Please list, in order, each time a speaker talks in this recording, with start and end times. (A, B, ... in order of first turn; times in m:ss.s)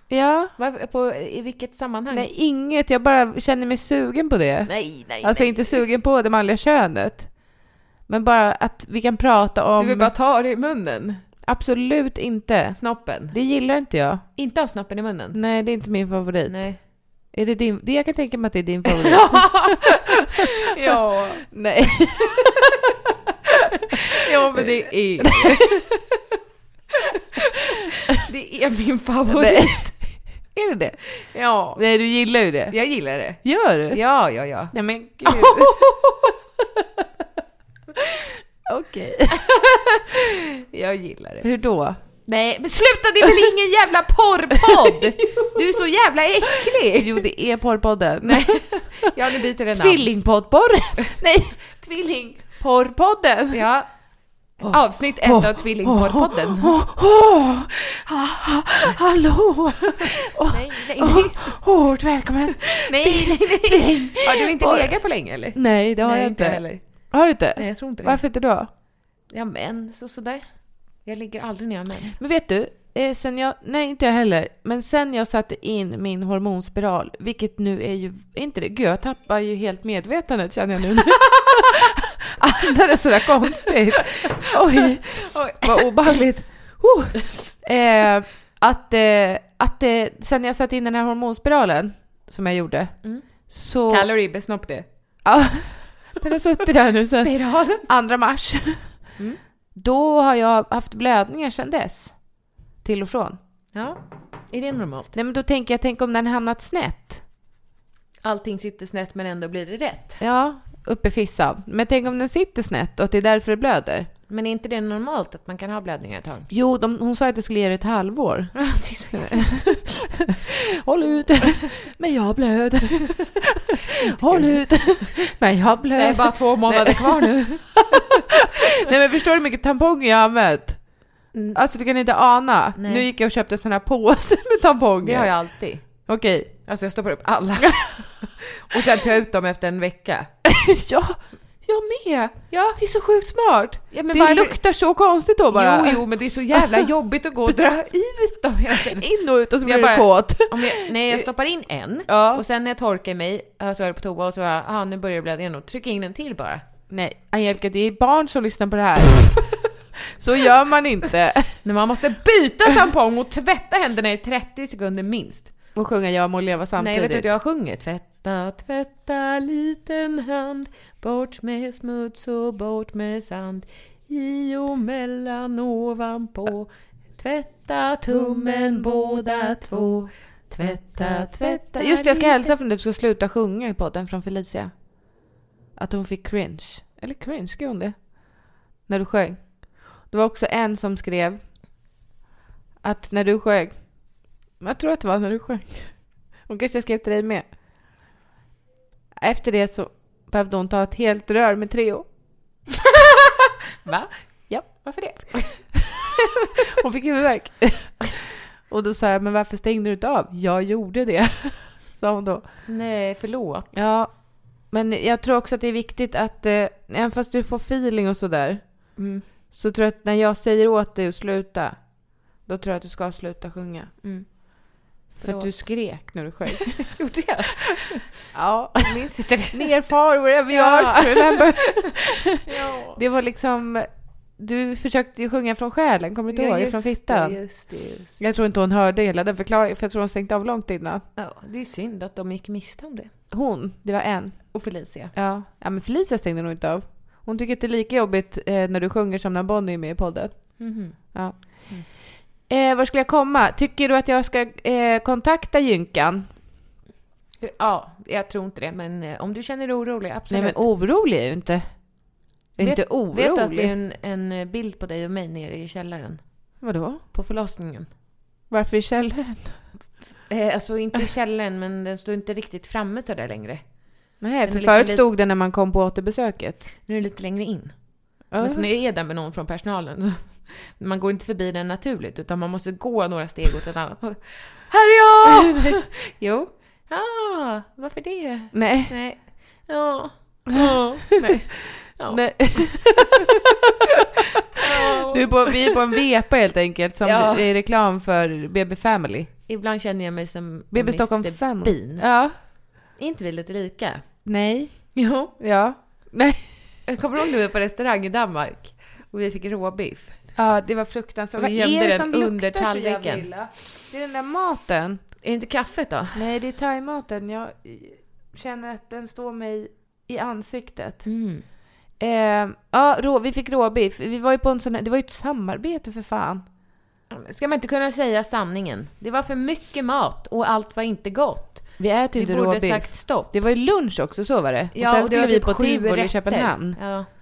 0:00.1-0:00.5 A
0:00.6-0:02.3 B
0:02.1-0:07.3 A
0:04.7-0:05.8 B
0:08.1-0:10.1 A
0:09.8-0:11.2 B
0:11.5-0:12.8 A
0:12.8-0:13.4 B
0:13.3-0:14.2 A
0:14.4-0:15.4 B
0:15.4-0:16.7 A
0:16.5-0:16.8 B
0:17.3-0:20.2 A
0:19.0-0:20.0 B
0:20.7-0:21.4 B
0:20.8-0:22.8 A
0:24.2-0:25.8 B
0:25.2-0:25.8 A
0:28.1-0:29.9 B
0:29.3-0:31.0 A
0:31.2-0:31.8 B
0:31.8-0:32.8 A
0:32.7-0:36.2 B
0:33.4-0:34.0 A
0:34.7-0:35.9 A
0:38.7-0:39.4 A
0:39.3-0:41.5 B
0:41.4-0:42.0 A
0:42.3-0:47.2 B
0:45.2-0:45.5 A
0:46.8-0:49.1 A
0:48.2-0:50.1 B
0:49.7-0:53.6 A
0:53.5-0:53.9 B
0:54.6-1:04.9 A
0:54.6-0:56.8 B
1:00.5-1:01.5 B
1:02.9-1:06.8 B
1:05.6-1:08.7 A
1:07.6-1:08.2 B
1:09.3-1:10.4 B
1:11.0-1:12.2 B
1:12.2-1:32.9 A
1:25.2-1:25.9 B
1:33.5-1:34.1 A
1:33.9-1:34.9 B
1:35.2-1:39.0 A
1:37.2-1:37.9 B
1:39.8-1:42.2 A
1:42.8-1:43.4 A
1:43.7-1:44.0 B
1:44.5-1:45.1 B
1:45.1-1:47.2 A
1:48.2-1:50.2 B
1:50.2-1:54.1 A
1:54.3-1:56.5 B
1:56.5-2:10.8 A
1:58.6-1:59.8 B
2:04.1-2:05.3 B
2:06.0-2:07.8 B
2:11.3-2:11.6 B
2:11.6-2:15.3 A
2:12.8-2:13.1 B
2:15.0-2:15.9 B
2:16.1-2:16.5 A
2:16.7-2:20.3 B
2:20.5-2:26.0 A
2:22.5-2:22.8 B
2:23.9-2:24.6 B
2:25.5-2:29.1 B
2:26.6-2:26.9 A
2:28.9-2:31.2 A
2:29.6-2:36.6 B
2:32.1-2:32.4 A
2:36.9-2:39.6 A
2:40.2-2:41.6 A
2:41.6-2:45.6 B
2:45.8-2:47.3 A
2:46.8-3:02.5 B
2:58.2-2:59.9 A
3:00.6-3:05.0 A
3:05.8-3:11.5 A
3:12.8-3:14.1 A
3:14.6-3:17.5 A
3:19.2-3:22.1 A
3:23.8-3:25.7 B
3:24.5-3:24.9 A
3:26.7-3:32.5 A
3:32.7-3:33.8 B
3:33.7-3:39.0 A
3:39.0-3:39.2 B
3:39.5-3:43.9 A
3:44.0-3:45.7 B
3:45.2-3:46.9 A
3:46.5-3:48.1 B
3:48.3-3:52.4 A
3:48.8-3:49.8 B
3:50.5-3:53.0 B
3:53.0-3:57.4 A
3:56.3-3:58.2 B
3:58.2-4:01.0 A
4:01.2-4:03.1 B
4:03.3-4:04.6 A
4:04.5-4:05.2 B
4:05.1-4:12.0 A
4:10.6-4:11.9 B
4:12.5-4:16.3 A
4:17.4-4:20.6 B
4:20.3-4:21.9 A
4:22.6-4:23.7 A
4:22.6-4:26.5 B
4:26.6-4:27.0 A
4:27.1-4:27.9 B
4:28.5-4:29.6 A
4:30.3-4:33.7 B
4:34.2-4:36.7 A
4:34.4-4:35.0 B
4:36.9-4:53.0 B
4:38.3-4:38.7 A
4:45.3-4:45.7 A
4:48.5-4:48.9 A
4:51.1-4:53.2 A
4:54.6-4:55.8 B
4:54.8-4:59.3 A
4:57.0-4:57.5 B
4:59.5-5:02.3 B
5:00.7-5:02.4 A
5:03.0-5:04.2 B
5:04.3-5:06.5 A
5:05.0-5:05.3 B
5:06.9-5:10.3 B
5:10.4-5:15.0 A
5:11.4-5:13.3 B
5:15.2-5:16.2 B
5:16.2-5:21.1 A
5:21.0-5:21.4 B
5:22.0-5:26.4 A
5:27.1-5:33.3 B
5:31.8-5:36.8 A
5:34.8-5:37.1 B